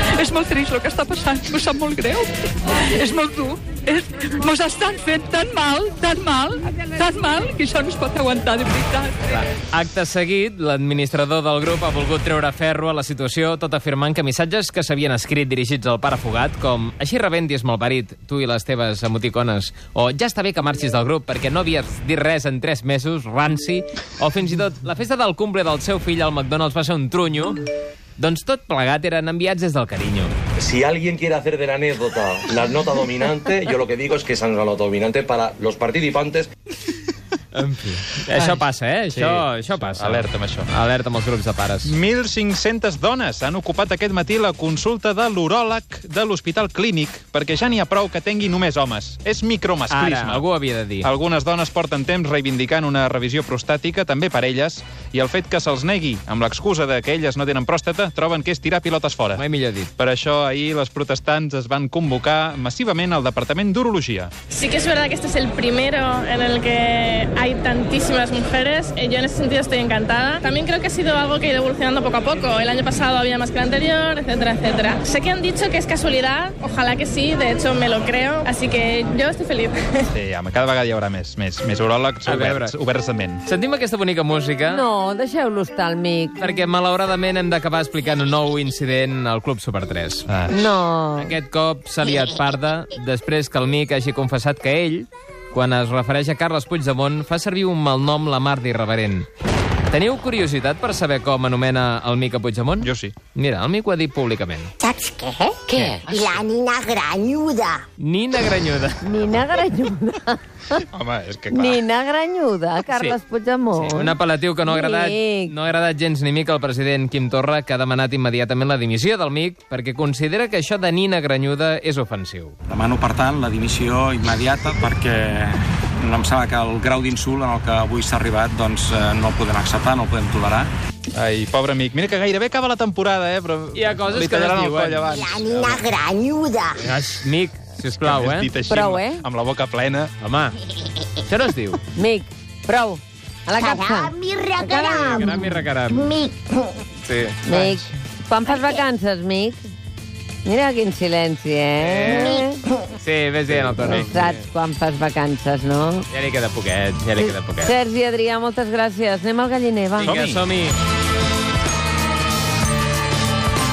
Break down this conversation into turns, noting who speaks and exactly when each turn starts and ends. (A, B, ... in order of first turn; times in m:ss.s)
0:00.2-0:09.1 A
0:09.2-0:27.6 B
0:28.2-0:30.3 B
0:30.6-0:36.5 C
0:37.5-0:41.9 B
0:38.3-0:38.6 D
0:39.1-0:40.7 D
0:41.8-0:50.4 D
0:49.9-0:51.1 B
0:51.0-0:59.4 D
0:59.3-0:59.9 B
1:00.0-1:04.3 D
1:04.5-1:20.1 E
1:20.1-1:23.4 D
1:22.2-1:22.7 B
1:23.4-1:24.8 B
1:24.7-1:26.5 F
1:26.4-1:30.3 B
1:30.3-1:30.7 D
1:30.5-1:31.4 F
1:31.2-1:39.3 B
1:39.9-1:44.7 B
1:42.8-1:43.1 D
1:44.8-1:47.8 G
1:45.7-1:46.1 B
1:48.0-1:49.0 B
1:49.0-1:50.8 F
1:50.9-1:51.8 D
1:51.5-1:55.5 F
1:52.9-1:53.2 B
1:53.7-2:02.5 B
2:02.7-2:10.7 H
2:11.1-2:15.8 D
2:13.7-2:15.1 B
2:15.1-2:16.8 G
2:16.8-2:18.5 B
2:18.0-2:20.1 D
2:18.7-2:19.2 F
2:20.2-2:20.6 B
2:21.2-2:21.8 B
2:22.0-2:25.5 F
2:23.6-2:26.4 G
2:25.1-2:26.1 B
2:27.0-2:27.8 B
2:27.4-2:29.7 F
2:30.4-2:32.6 F
2:31.8-2:32.4 B
2:32.1-2:32.4 G
2:33.0-2:34.4 B
2:33.5-2:33.9 D
2:33.8-2:36.0 F
2:36.1-2:37.7 B
2:37.2-2:40.2 F
2:40.0-2:40.8 B
2:40.1-2:40.4 D